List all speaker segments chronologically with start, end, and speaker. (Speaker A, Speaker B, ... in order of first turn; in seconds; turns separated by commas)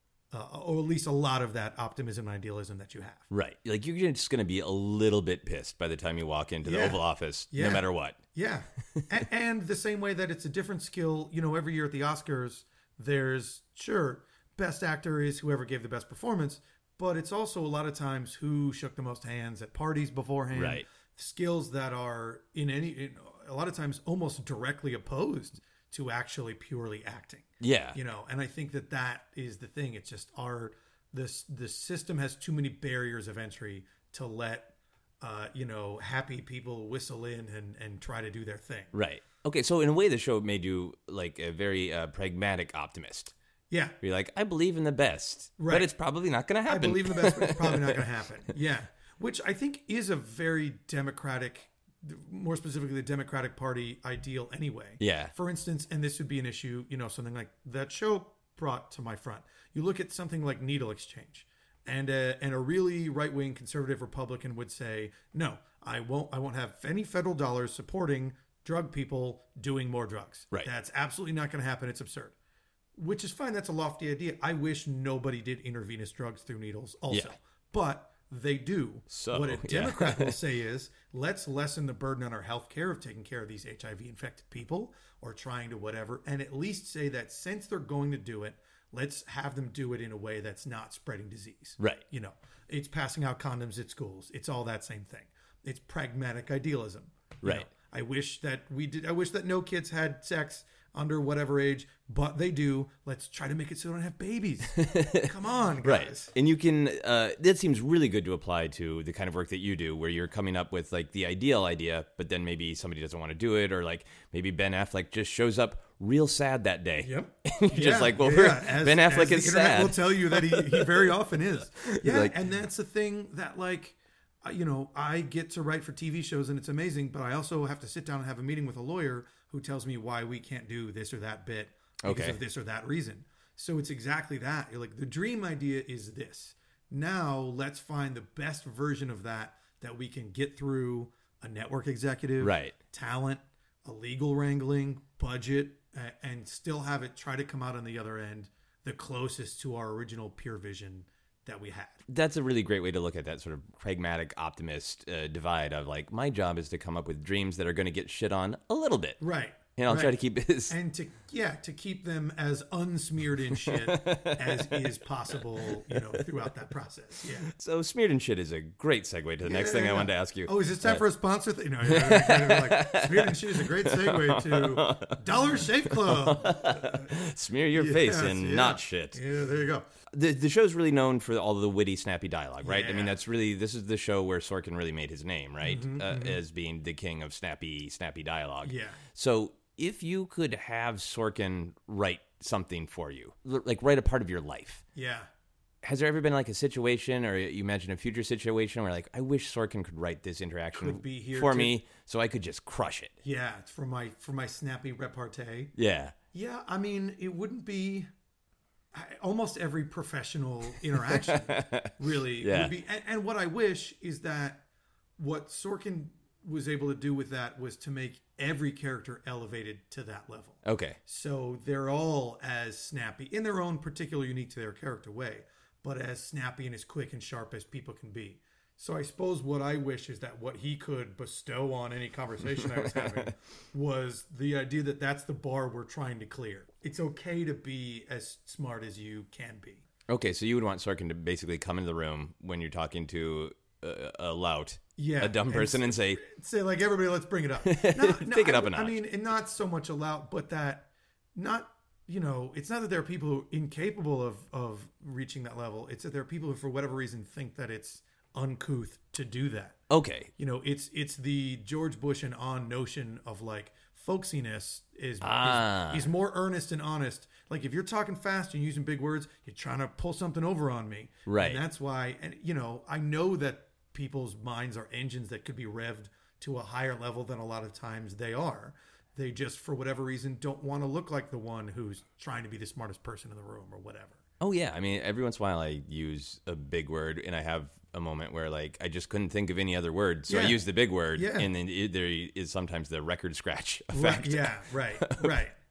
Speaker A: 0.3-3.3, Speaker B: 3.3-8.2, Speaker A: 6.6-38.9, Speaker B: 20.5-20.9, Speaker B: 27.6-28.0, Speaker B: 38.9-43.3, Speaker A: 43.7-44.0, Speaker B: 44.0-48.1, Speaker A: 45.6-45.9, Speaker A: 46.6-72.3, Speaker B: 55.0-55.3, Speaker A: 73.0-106.3, Speaker B: 79.1-80.4, Speaker B: 91.8-92.0, Speaker B: 97.4-97.7, Speaker B: 104.7-105.3, Speaker B: 105.8-122.4, Speaker A: 117.0-152.0, Speaker B: 132.0-132.4, Speaker B: 142.4-142.8, Speaker B: 152.1-160.8, Speaker A: 159.2-167.5, Speaker B: 163.5-166.2, Speaker B: 167.5-171.0, Speaker A: 169.4-177.1, Speaker B: 171.8-179.2, Speaker A: 177.7-179.9, Speaker B: 180.1-194.8, Speaker A: 182.6-183.2, Speaker A: 185.6-186.4, Speaker A: 188.6-189.0, Speaker A: 194.9-195.3, Speaker B: 195.8-203.2, Speaker A: 200.7-201.8, Speaker A: 203.2-205.7, Speaker B: 205.8-206.2, Speaker A: 206.3-208.1, Speaker A: 208.9-214.6, Speaker B: 210.9-212.8, Speaker A: 215.2-239.8, Speaker B: 220.6-221.0, Speaker B: 232.5-233.3, Speaker B: 240.1-246.2, Speaker A: 245.0-259.8, Speaker B: 247.6-249.0, Speaker B: 259.9-260.3, Speaker A: 260.4-284.2, Speaker B: 265.2-266.1, Speaker B: 271.3-271.6, Speaker B: 284.4-295.4, Speaker A: 290.3-291.5, Speaker A: 293.9-295.5